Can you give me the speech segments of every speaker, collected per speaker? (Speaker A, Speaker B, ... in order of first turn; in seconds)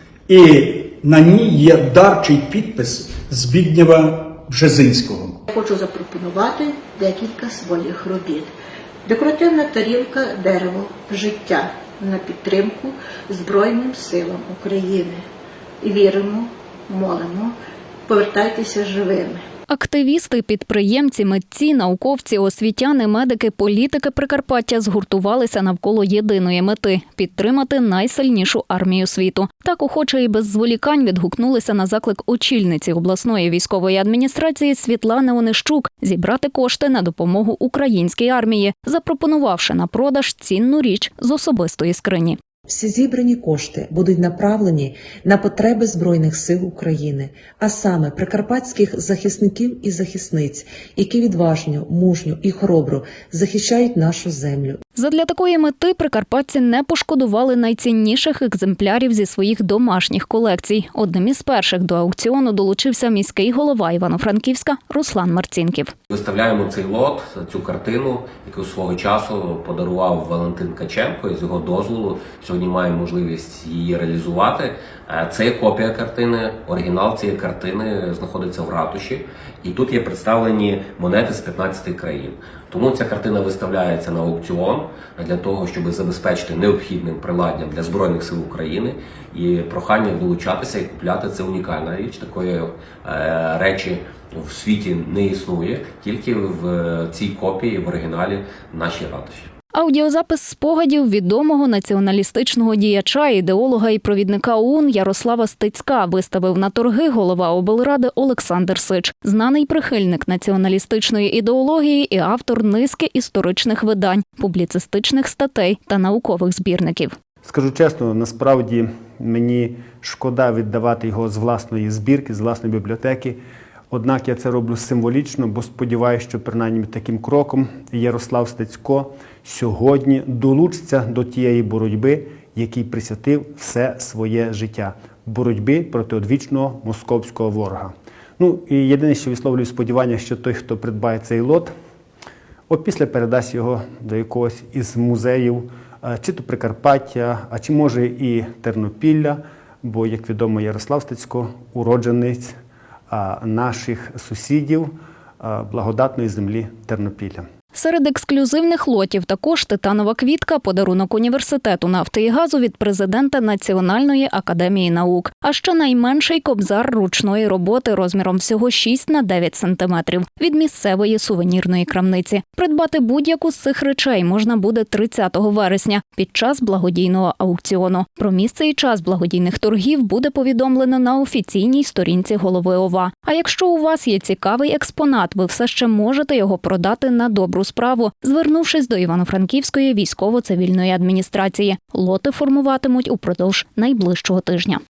Speaker A: 0.3-5.4
Speaker B: 5.5-8.5, 9.1-15.2, 15.8-17.5, 18.1-19.4
Speaker C: 19.7-42.4, 55.0-65.9, 99.7-117.1, 157.7-194.8
Speaker D: 42.7-54.8
Speaker E: 66.1-99.5
Speaker F: 117.4-123.4, 123.9-141.7, 142.7-152.5, 153.1-157.4